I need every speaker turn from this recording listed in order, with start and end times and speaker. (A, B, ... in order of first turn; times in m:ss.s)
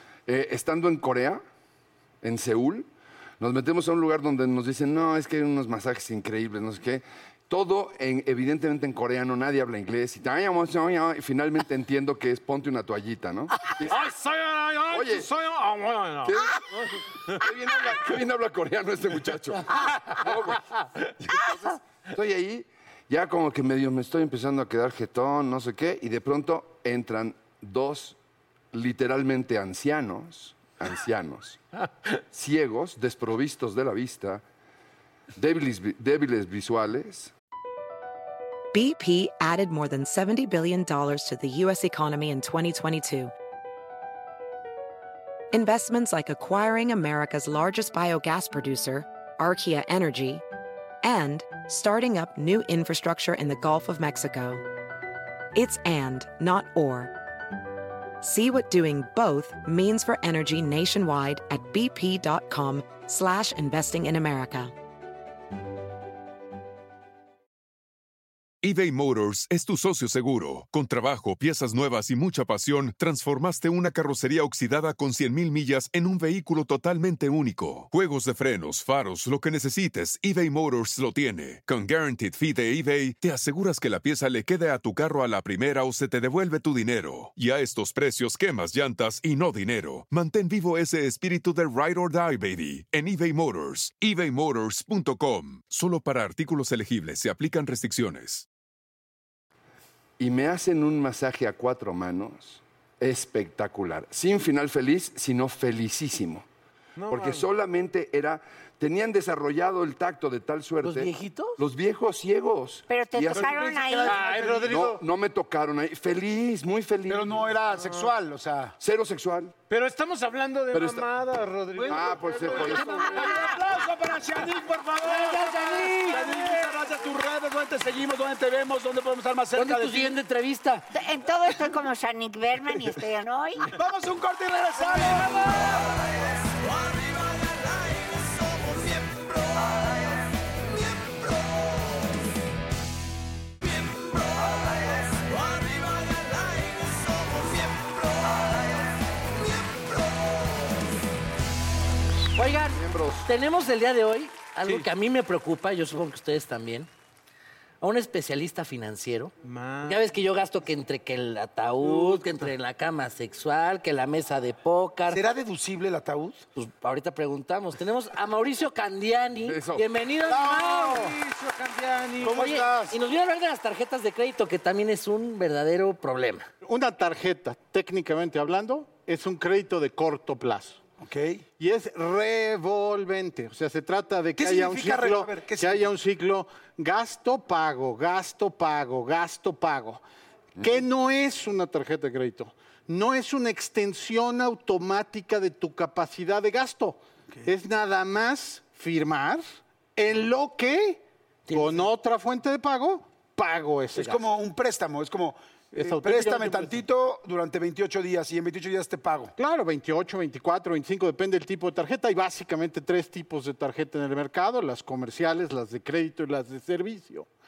0:00.3-0:01.4 A
0:02.2-0:02.9 A
0:03.4-0:14.0 A
0:13.6-0:17.4 B
0:14.9-0:15.3 A
0:16.2-0:16.7 A
0:17.3-0:28.2 A
0:28.7-0:31.6 A
0:32.3-0:34.4 A
0:35.3-0:37.3 A
0:38.7-0:43.3 C
0:45.5-0:50.4 C
0:51.0-0:54.6 C
0:55.5-0:57.1 C
0:58.2-1:04.7 C
1:08.6-1:38.4 D
1:40.2-1:46.4 A
1:47.0-1:47.5 B
1:47.1-1:53.7 A
1:50.8-1:51.6 E
1:52.9-1:54.3 F
1:53.3-1:54.9 G
1:54.0-1:55.0 B
1:54.7-1:57.4 A
1:57.1-1:58.8 G
1:58.8-1:59.5 A
1:59.7-2:03.8 B
2:00.7-2:01.1 A
2:01.8-2:10.2 G
2:01.8-2:03.2 A
2:02.9-2:03.5 E
2:05.0-2:06.3 E
2:06.1-2:06.6 B
2:09.5-2:10.8 E
2:10.9-2:13.7 F
2:13.7-2:15.5 G
2:32.3-2:36.9 E
2:32.6-2:33.3 A
2:37.8-2:39.3 E
2:39.4-2:40.1 B
2:39.8-2:45.2 E
2:41.8-2:42.2 G
2:45.1-2:46.4 G
2:46.6-2:51.2 E
2:49.4-2:49.8 A
2:50.2-2:52.5 B
2:52.2-2:53.0 G
2:52.3-2:56.5 E
2:56.6-3:00.8 H
3:01.0-3:01.4 G
3:01.6-3:10.0 H
3:04.4-3:05.8 G
3:10.6-3:24.2 H
3:21.5-3:21.9 E
3:23.9-3:29.3 G
3:25.8-3:26.8 H
3:29.4-3:37.3 H